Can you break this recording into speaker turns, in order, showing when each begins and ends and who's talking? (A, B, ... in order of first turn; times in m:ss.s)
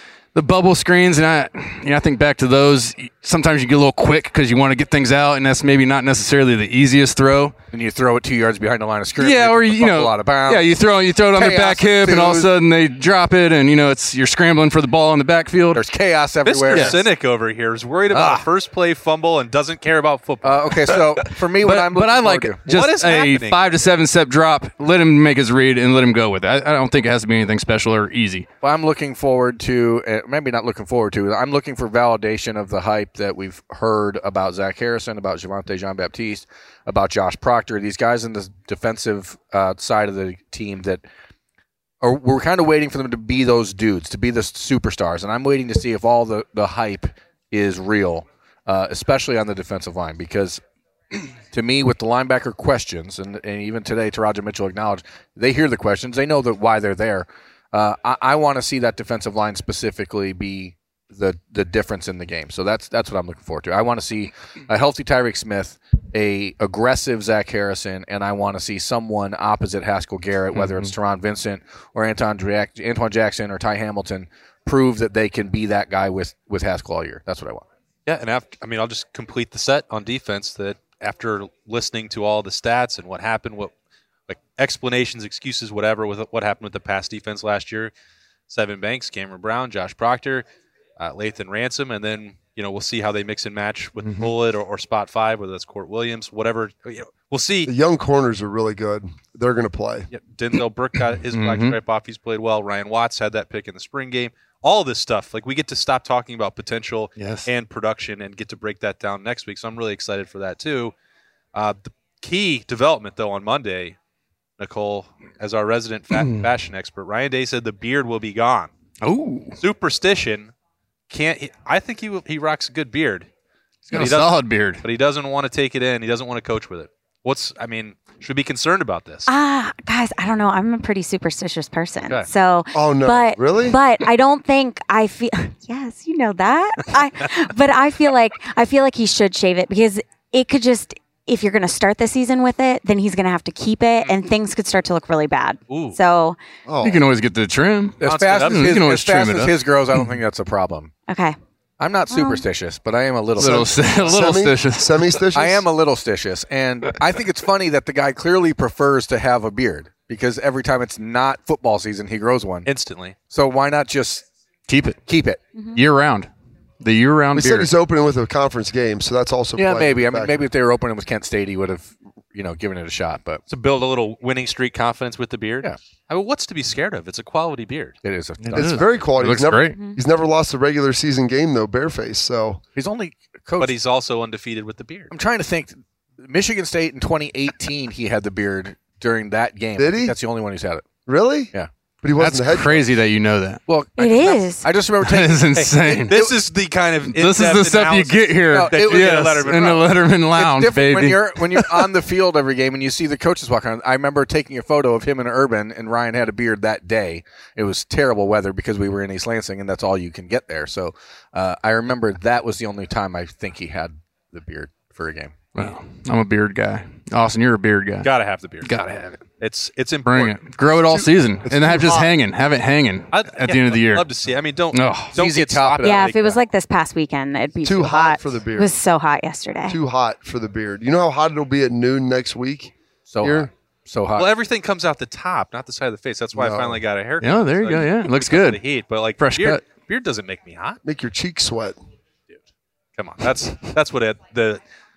0:00.3-0:07.5 A
0:07.7-0:10.7 B
0:09.2-0:15.8 A
0:11.3-0:12.5 B
0:15.7-0:17.0 B
0:16.4-0:21.0 C
0:16.6-0:17.0 A
0:18.1-0:18.4 A
0:20.4-0:22.6 B
0:20.9-0:28.4 A
0:22.7-0:23.6 C
0:28.6-0:41.0 B
0:42.0-0:50.6 B
0:51.5-1:17.6 B
1:10.5-1:10.9 A
1:18.0-1:23.7 C
1:24.3-1:27.9 C
1:28.5-1:30.4 C
1:31.0-1:37.7 C
1:34.0-1:34.3 A
1:37.6-1:40.1 D
1:40.1-1:50.9 C
1:41.3-1:41.8 A
1:47.2-1:47.5 A
1:51.5-1:54.0 C
1:54.6-1:58.7 C
1:56.1-1:56.5 A
1:59.0-1:59.6 A
1:59.6-2:00.5 C
2:01.1-2:03.3 C
2:03.9-2:04.8 A
2:03.9-2:09.3 C
2:09.3-2:26.4 E
2:12.7-2:13.8 D
2:25.7-2:26.0 C
2:26.6-2:27.0 D
2:26.8-2:30.1 A
2:28.0-2:30.9 B
2:28.0-2:28.8 C
2:31.1-2:31.4 E
2:31.8-2:33.8 B
2:32.1-2:32.4 E
2:33.4-2:35.0 A
2:33.4-2:35.6 D
2:35.3-2:42.7 B
2:42.6-2:43.1 C
2:43.3-2:44.2 B
2:44.7-2:45.0 A
2:45.1-2:45.4 B
2:45.7-2:46.3 A
2:46.8-2:47.7 A
2:47.3-2:50.4 D
2:49.6-2:53.4 B
2:53.5-2:58.0 C
2:58.0-2:59.6 B
2:58.4-2:59.7 A
2:58.5-3:02.6 D
3:02.8-3:03.7 B
3:03.6-3:05.1 C
3:05.1-3:10.8 B
3:09.8-3:10.1 D
3:11.0-3:11.5 D
3:12.0-3:12.9 D
3:12.2-3:13.6 A
3:13.7-3:16.3 B
3:14.0-3:14.7 E
3:15.0-3:16.2 A
3:15.5-3:19.8 C
3:17.1-3:21.8 A
3:18.5-3:35.6 B
3:35.5-3:38.1 A
3:38.0-3:38.7 C
3:38.6-3:39.2 A
3:39.4-3:40.4 C
3:40.0-3:44.0 A
3:40.9-3:42.1 D
3:43.1-3:46.1 C
3:44.7-3:45.1 A
3:45.1-3:46.4 B
3:45.8-3:49.8 E
3:47.6-3:48.7 D
3:49.7-3:53.5 D
3:53.1-3:54.3 B
3:54.1-4:00.8 C
3:56.3-3:56.8 D
3:57.2-3:58.6 A
3:59.2-3:59.6 A
4:00.8-4:01.8 D
4:03.0-4:04.6 C